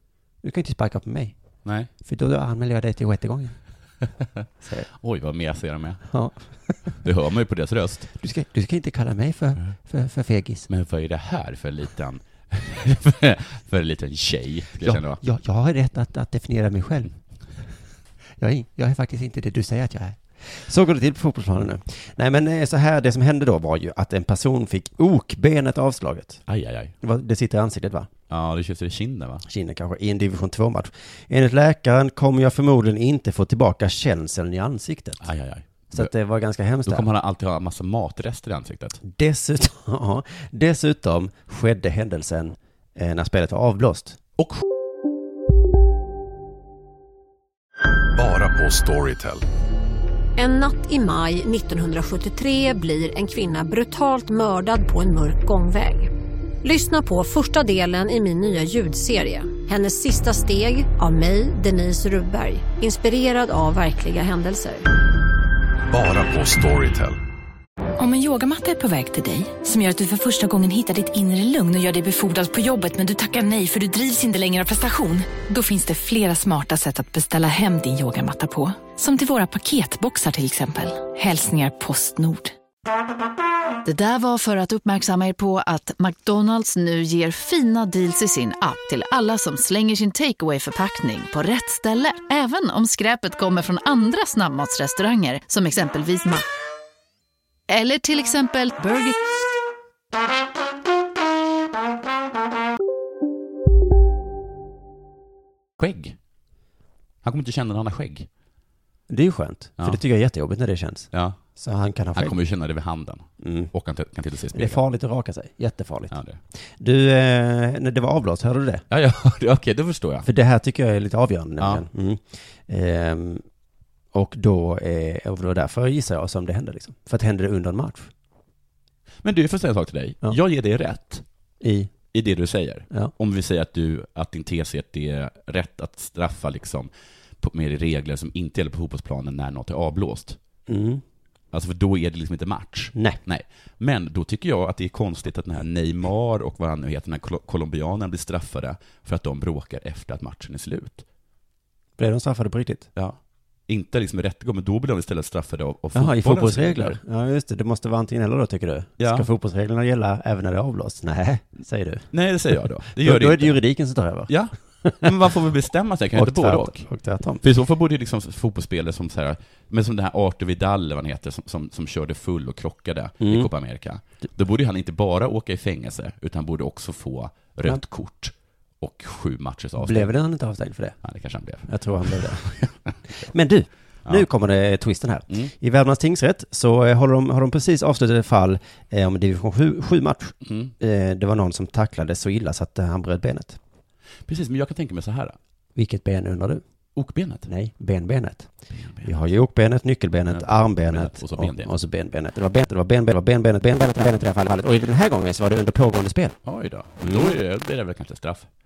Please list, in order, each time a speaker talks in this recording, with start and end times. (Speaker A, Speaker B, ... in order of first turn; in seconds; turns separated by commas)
Speaker A: 0.4-1.4, Speaker B: 1.6-1.9, Speaker A: 2.0-3.6, Speaker A: 4.6-4.9, Speaker B: 4.9-6.1, Speaker A: 6.1-7.0, Speaker B: 7.0-8.1, Speaker A: 8.2-10.7, Speaker B: 10.7-15.2, Speaker A: 14.8-17.1, Speaker A: 18.4-26.4, Speaker B: 26.5-26.9, Speaker A: 27.0-28.1, Speaker B: 28.3-29.4, Speaker A: 29.5-35.3, Speaker B: 35.2-36.1, Speaker A: 35.9-37.1, Speaker B: 36.9-39.0, Speaker A: 39.0-44.2, Speaker B: 44.4-44.6, Speaker C: 48.2-49.4, Speaker D: 50.4-56.1, Speaker D: 56.6-64.8, Speaker C: 65.9-67.2, Speaker E: 68.0-82.5, Speaker F: 83.8-96.4, Speaker F: 97.7-99.2, Speaker B: 105.8-106.2, Speaker B: 107.2-108.3, Speaker A: 109.1-112.3, Speaker B: 111.1-111.4, Speaker B: 112.2-114.8, Speaker A: 113.4-113.7, Speaker A: 114.5-118.8, Speaker B: 116.1-116.4, Speaker B: 118.9-120.3, Speaker A: 120.2-123.5, Speaker B: 121.6-121.8, Speaker A: 124.1-128.1, Speaker B: 129.2-131.2, Speaker A: 131.6-131.9, Speaker B: 132.1-140.4, Speaker A: 140.7-141.0, Speaker B: 141.5-151.1, Speaker A: 152.0-152.9, Speaker B: 153.0-157.0, Speaker A: 155.9-162.1, Speaker B: 159.0-159.3, Speaker B: 162.1-163.6, Speaker A: 163.0-165.1, Speaker B: 164.3-166.9, Speaker A: 166.2-167.4, Speaker B: 167.4-180.1, Speaker A: 173.2-173.5, Speaker A: 179.8-181.0, Speaker B: 181.0-182.9, Speaker A: 181.7-182.5, Speaker A: 183.2-193.6, Speaker B: 190.4-190.7, Speaker B: 194.3-195.4, Speaker A: 195.8-196.6, Speaker B: 197.0-197.5, Speaker A: 197.5-198.5, Speaker B: 198.7-199.1, Speaker A: 199.0-206.4, Speaker B: 200.3-201.7, Speaker B: 206.4-208.5, Speaker A: 207.0-207.4